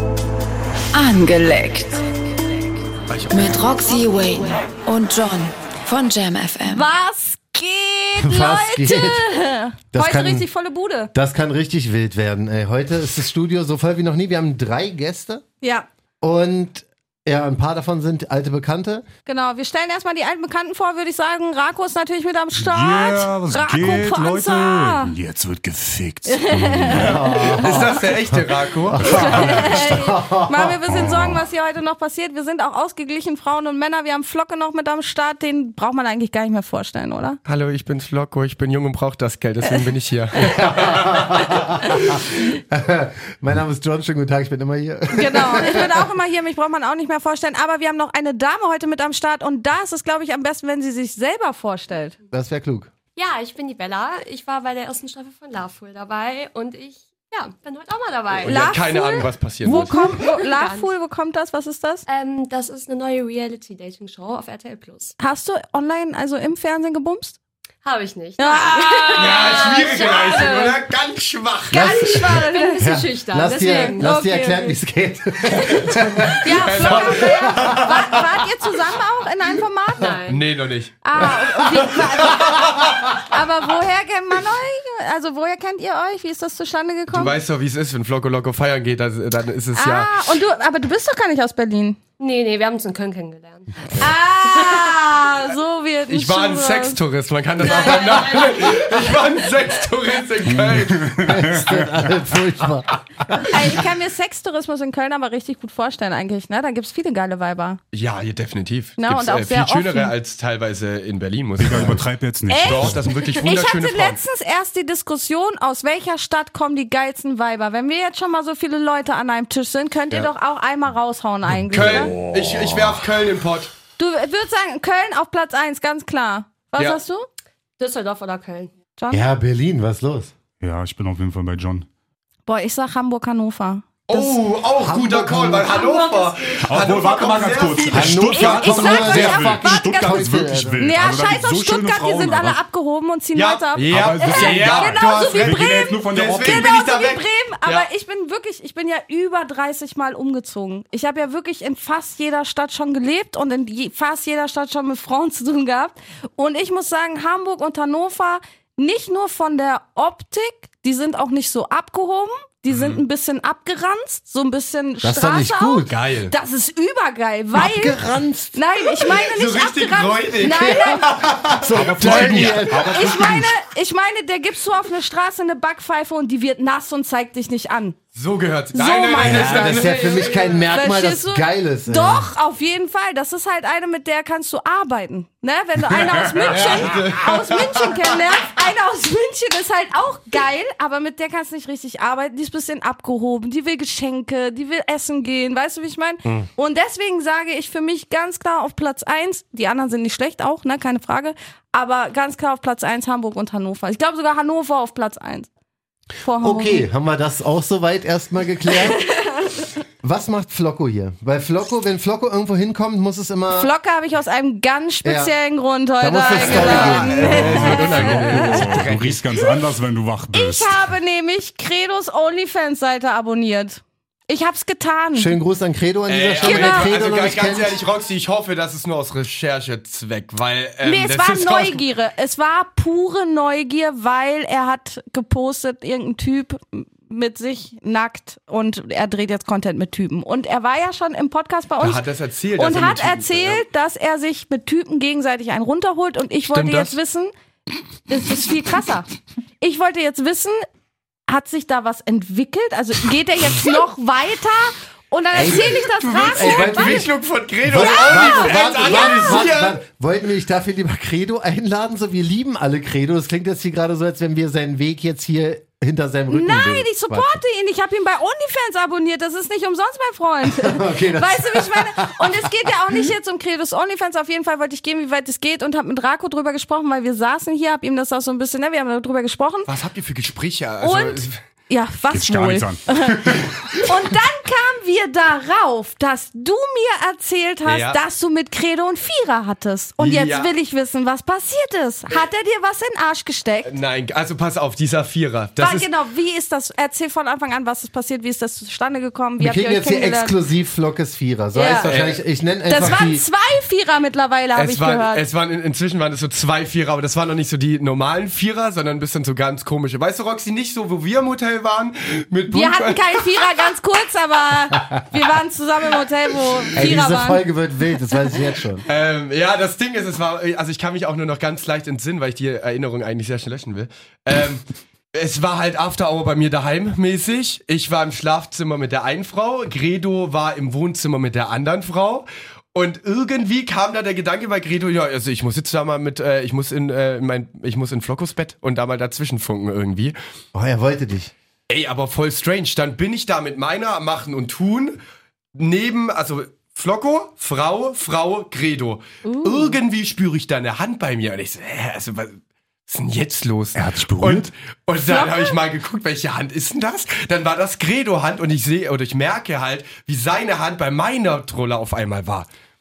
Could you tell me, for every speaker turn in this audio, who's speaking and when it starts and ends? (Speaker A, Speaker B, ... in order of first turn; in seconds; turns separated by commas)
Speaker A: 0.9-2.0, Speaker B: 3.1-3.6, Speaker A: 3.3-6.8, Speaker C: 6.7-11.1, Speaker D: 8.2-9.3, Speaker D: 9.9-10.5, Speaker D: 11.1-15.4, Speaker C: 15.6-15.9, Speaker D: 16.2-19.1, Speaker C: 19.2-25.1, Speaker E: 22.6-27.7, Speaker C: 26.2-27.8, Speaker D: 26.9-30.8, Speaker B: 27.6-29.6, Speaker E: 29.0-29.9, Speaker C: 29.1-37.4, Speaker E: 30.9-31.4, Speaker B: 37.5-41.2, Speaker D: 40.4-46.1, Speaker C: 45.1-52.1, Speaker D: 52.3-52.9, Speaker F: 53.1-58.9, Speaker B: 58.4-60.1, Speaker C: 58.4-62.0, Speaker F: 59.6-60.9, Speaker F: 62.1-65.2, Speaker C: 65.2-67.4, Speaker F: 67.8-70.8, Speaker C: 68.4-70.6, Speaker B: 69.1-72.0, Speaker C: 71.7-72.9, Speaker D: 71.7-78.2, Speaker F: 71.8-74.7, Speaker C: 73.5-74.8, Speaker B: 75.8-77.9, Speaker C: 76.4-80.2, Speaker F: 80.0-80.4, Speaker B: 80.3-81.0, Speaker C: 81.0-87.4, Speaker D: 81.2-83.1, Speaker B: 87.1-90.1, Speaker C: 89.8-92.0, Speaker F: 92.2-95.0, Speaker C: 94.0-97.0, Speaker B: 96.1-101.2, Speaker F: 97.7-98.4, Speaker C: 97.8-98.3, Speaker E: 100.5-102.1, Speaker D: 101.2-103.8, Speaker C: 103.5-107.8, Speaker B: 107.9-112.1, Speaker C: 109.0-110.2, Speaker E: 111.6-113.0, Speaker C: 112.5-122.1, Speaker B: 112.6-114.2, Speaker E: 121.7-123.1, Speaker B: 121.7-123.7, Speaker C: 124.0-127.3, Speaker F: 127.8-128.7, Speaker C: 129.0-129.2, Speaker D: 129.1-130.3, Speaker E: 130.6-131.9, Speaker C: 132.5-134.2, Speaker B: 134.1-139.2, Speaker D: 134.8-135.8, Speaker F: 135.6-137.0, Speaker E: 136.6-142.6, Speaker D: 137.9-140.8, Speaker C: 138.3-140.2, Speaker C: 140.8-171.2, Speaker B: 143.3-147.9, Speaker E: 143.8-146.8, Speaker D: 165.0-165.9, Speaker B: 165.9-166.3, Speaker D: 167.5-168.6, Speaker B: 169.2-172.8, Speaker D: 170.4-173.5, Speaker E: 171.7-173.5, Speaker C: 172.8-178.0, Speaker B: 178.1-180.3, Speaker C: 178.7-205.5, Speaker D: 179.2-182.3, Speaker B: 186.5-188.2, Speaker C: 206.2-206.9, Speaker D: 206.4-209.0, Speaker C: 208.7-209.7, Speaker D: 210.0-213.7, Speaker C: 213.5-218.8, Speaker D: 215.0-215.3, Speaker D: 216.0-217.6, Speaker B: 216.4-219.3, Speaker E: 217.2-220.8, Speaker C: 220.3-225.3, Speaker D: 225.1-227.8, Speaker B: 226.1-231.8, Speaker C: 226.4-226.9, Speaker C: 230.8-242.0, Speaker B: 241.8-243.6, Speaker C: 242.6-247.3, Speaker B: 246.5-247.0, Speaker C: 248.1-249.1, Speaker C: 249.6-250.6, Speaker C: 251.3-257.1, Speaker D: 255.3-257.1, Speaker B: 255.9-259.8, Speaker D: 257.6-267.4, Speaker C: 257.7-259.5, Speaker C: 266.3-279.7, Speaker D: 270.5-273.1, Speaker B: 279.7-281.4, Speaker C: 280.8-293.7, Speaker E: 282.1-283.9, Speaker B: 287.6-288.0, Speaker B: 290.0-290.5, Speaker B: 293.6-295.9, Speaker C: 295.6-300.4, Speaker D: 299.4-303.2, Speaker C: 301.5-301.9, Speaker B: 301.8-302.2, Speaker C: 302.7-305.2, Speaker B: 304.6-313.4, Speaker C: 312.5-317.4, Speaker D: 316.8-318.8, Speaker B: 318.9-340.1, Speaker D: 340.5-341.3, Speaker B: 341.7-345.0, Speaker B: 345.6-362.5, Speaker C: 349.2-349.8, Speaker E: 353.8-354.5, Speaker C: 355.1-355.6